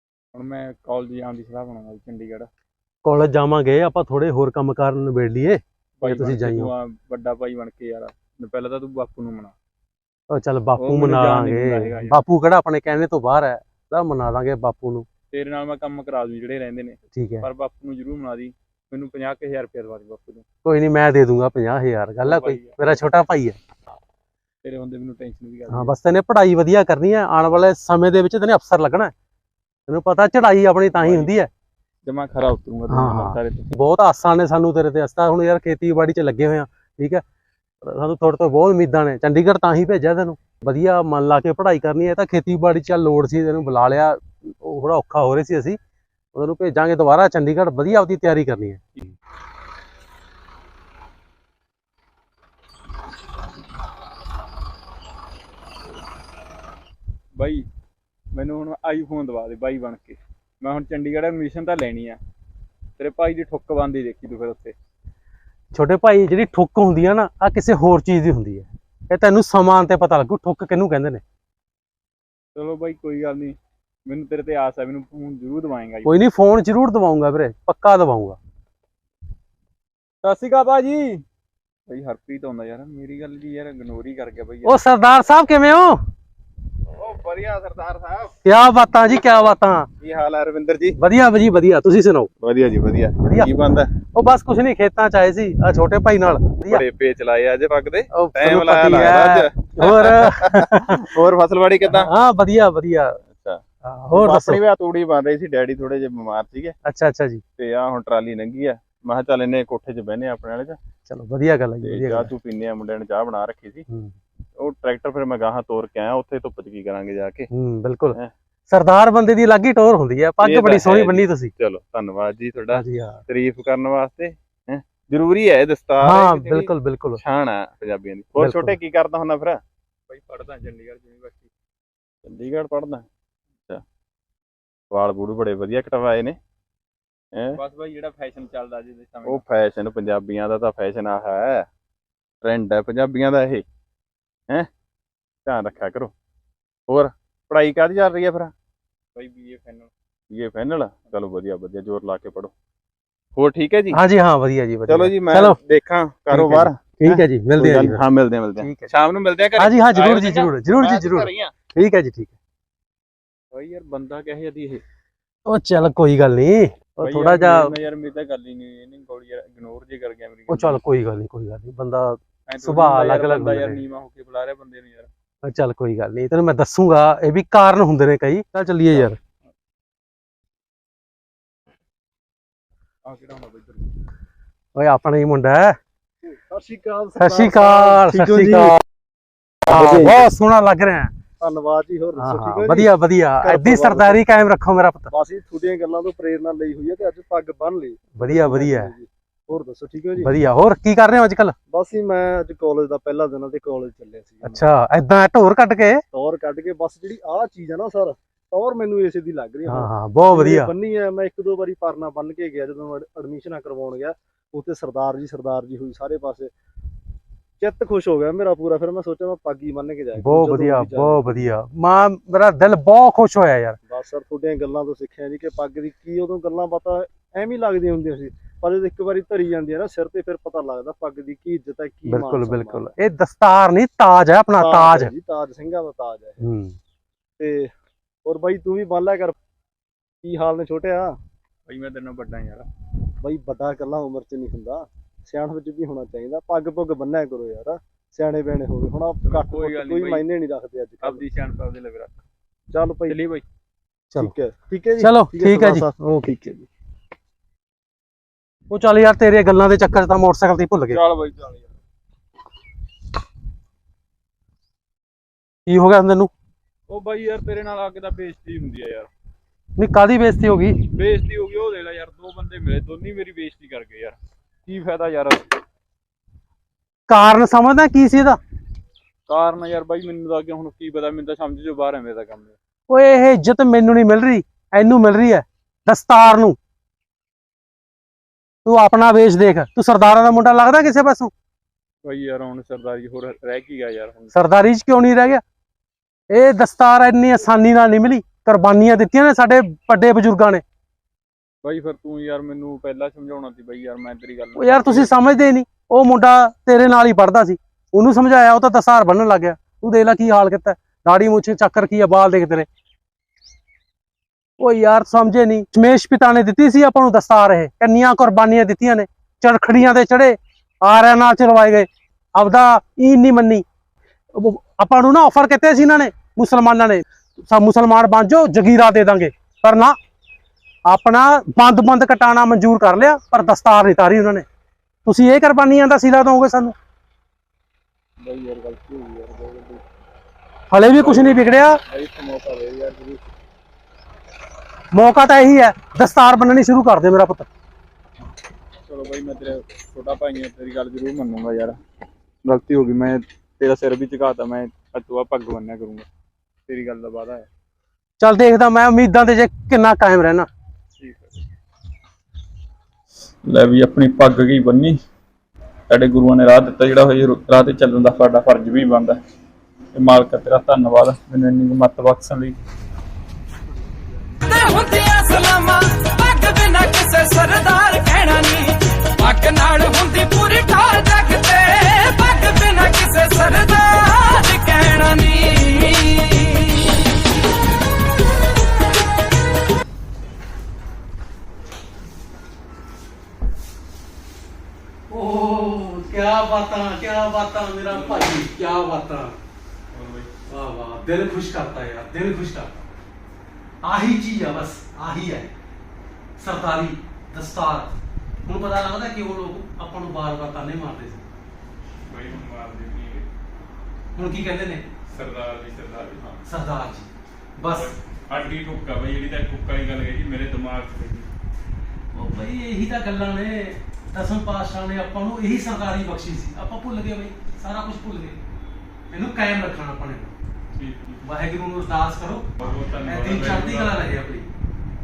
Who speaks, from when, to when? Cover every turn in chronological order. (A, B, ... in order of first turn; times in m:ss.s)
0:00.3-0:02.5 A
0:03.0-0:06.7 B
0:06.0-0:09.5 A
0:10.3-0:15.1 B
0:10.8-0:12.2 A
0:15.3-0:20.4 A
0:17.1-0:17.5 B
0:20.6-0:23.6 B
0:22.2-0:22.8 A
0:24.6-0:25.9 A
0:25.7-0:29.1 B
0:29.9-0:31.5 B
0:30.9-0:31.3 A
0:32.0-0:33.7 A
0:32.9-0:37.2 B
0:37.8-0:45.8 B
0:46.3-0:48.8 B
0:57.4-0:57.6 A
0:58.3-1:02.2 A
1:03.0-1:04.8 A
1:05.7-1:11.2 B
1:12.5-1:13.6 A
1:14.1-1:16.1 A
1:16.0-1:18.4 B
1:20.2-1:21.2 A
1:21.9-1:24.8 A
1:24.6-1:26.0 B
1:27.0-1:28.3 C
1:28.4-1:29.9 B
1:30.0-1:31.0 C
1:31.0-1:32.3 B
1:32.4-1:33.9 C
1:33.2-1:33.5 B
1:34.1-1:36.8 B
1:36.7-1:42.1 C
1:38.1-1:41.2 B
1:41.8-1:43.2 B
1:43.8-1:44.6 B
1:44.1-1:46.8 C
1:46.8-1:47.4 B
1:47.6-1:50.8 C
1:51.1-1:52.3 B
1:51.9-1:53.8 C
1:53.9-1:54.1 B
1:54.6-1:57.5 C
1:57.5-2:01.5 B
2:00.4-2:09.6 C
2:02.7-2:03.2 B
2:06.0-2:07.2 B
2:08.4-2:08.7 B
2:10.1-2:11.5 A
2:12.2-2:13.0 C
2:14.9-2:16.4 C
2:17.3-2:17.6 C
2:17.6-2:19.4 A
2:19.2-2:21.7 C
2:22.4-2:23.6 C
2:25.4-2:26.1 C
2:26.9-2:28.5 C
2:29.1-2:29.9 A
2:30.3-2:32.5 C
2:33.4-2:34.0 C
2:33.9-2:35.6 B
2:34.9-2:41.5 C
2:36.3-2:38.0 B
2:38.6-2:38.9 B
2:39.6-2:42.3 B
2:43.5-2:44.8 A
2:45.4-2:47.7 B
2:47.0-2:50.8 A
2:50.5-2:53.8 B
2:52.5-2:55.1 A
2:55.4-2:59.2 B
3:03.0-3:03.9 A
3:04.7-3:05.8 B
3:06.3-3:08.8 D
3:07.2-3:08.8 B
3:09.7-3:11.1 B
3:09.7-3:10.2 D
3:11.4-3:14.2 D
3:12.2-3:15.1 B
3:15.1-3:20.3 D
3:18.2-3:18.9 B
3:20.2-3:21.5 B
3:21.7-3:24.6 D
3:24.4-3:26.0 B
3:26.1-3:36.5 D
3:29.7-3:30.7 B
3:37.6-3:41.5 D
3:40.2-3:43.8 B
3:43.8-3:52.9 D
3:52.0-3:55.1 B
3:54.6-3:56.4 D
3:56.4-3:56.8 B
3:57.4-3:57.7 D
3:58.2-3:59.3 D
4:00.2-4:01.1 D
4:01.6-4:02.7 A
4:03.2-4:11.3 D
4:09.2-4:10.2 A
4:11.0-4:12.2 A
4:12.7-4:13.2 D
4:13.1-4:13.4 A
4:14.2-4:15.9 D
4:15.0-4:16.7 B
4:18.7-4:21.0 B
4:20.9-4:21.7 A
4:25.6-4:26.3 B
4:26.9-4:29.1 A
4:29.8-4:30.8 B
4:30.9-4:35.5 A
4:37.1-4:38.4 B
4:39.3-4:42.6 A
4:42.9-4:46.6 B
4:48.6-4:51.3 B
4:52.0-4:54.3 A
4:54.3-4:55.4 B
4:56.3-5:00.6 B
5:01.6-5:05.1 A
5:04.6-5:12.7 B
5:14.6-5:23.6 B
5:24.3-5:30.0 B
5:30.9-5:34.4 B
5:35.0-5:36.8 B
5:38.2-5:39.8 A
5:40.7-5:41.8 B
5:40.9-5:43.2 A
5:44.9-5:47.5 B
5:48.9-5:51.8 A
5:52.4-5:56.1 A
5:56.7-5:57.5 A
5:58.2-6:00.5 B
6:00.9-6:01.4 A
6:03.4-6:05.0 A
6:05.9-6:09.2 A
6:09.9-6:12.6 A
6:14.4-6:26.9 E
6:35.1-6:39.4 B
6:37.9-6:38.3 A
6:39.9-6:40.3 A
6:40.5-6:42.8 B
6:43.8-6:45.5 B
6:46.4-6:47.9 B
6:48.4-6:51.3 B
6:52.0-6:53.3 A
6:54.2-6:54.8 B
6:55.1-6:56.4 A
6:56.4-6:57.9 B
6:57.7-7:01.3 A
7:02.1-7:08.4 B
7:09.1-7:10.3 B
7:10.7-7:11.2 A
7:11.2-7:14.5 B
7:12.6-7:14.0 A